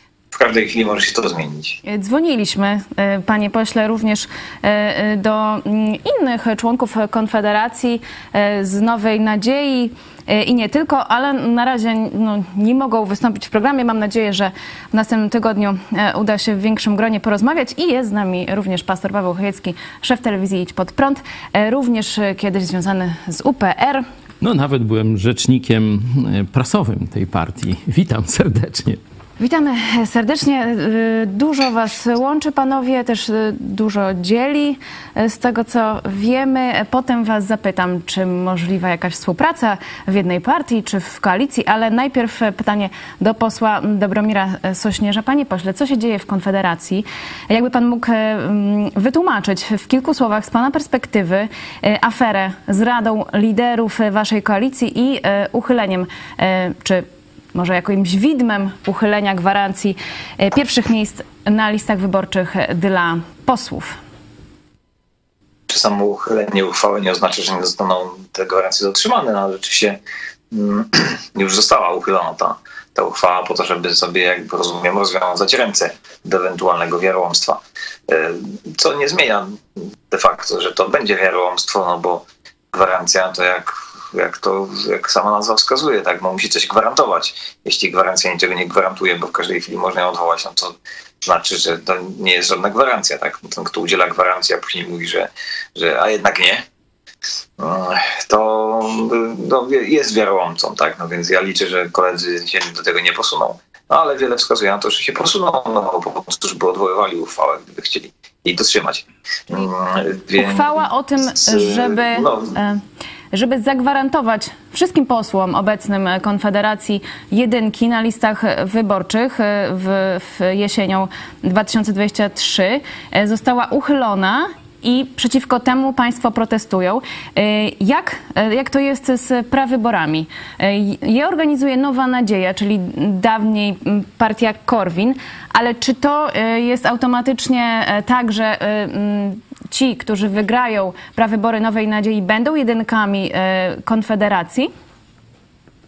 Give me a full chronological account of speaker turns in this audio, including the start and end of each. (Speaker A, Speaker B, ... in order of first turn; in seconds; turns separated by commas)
Speaker A: 0.3-1.8, Speaker B: 1.8-24.0, Speaker C: 24.4-29.0, Speaker B: 29.4-64.0, Speaker A: 65.7-70.0, Speaker A: 70.5-96.6, Speaker A: 97.6-112.5, Speaker B: 110.3-112.8, Speaker B: 113.3-144.7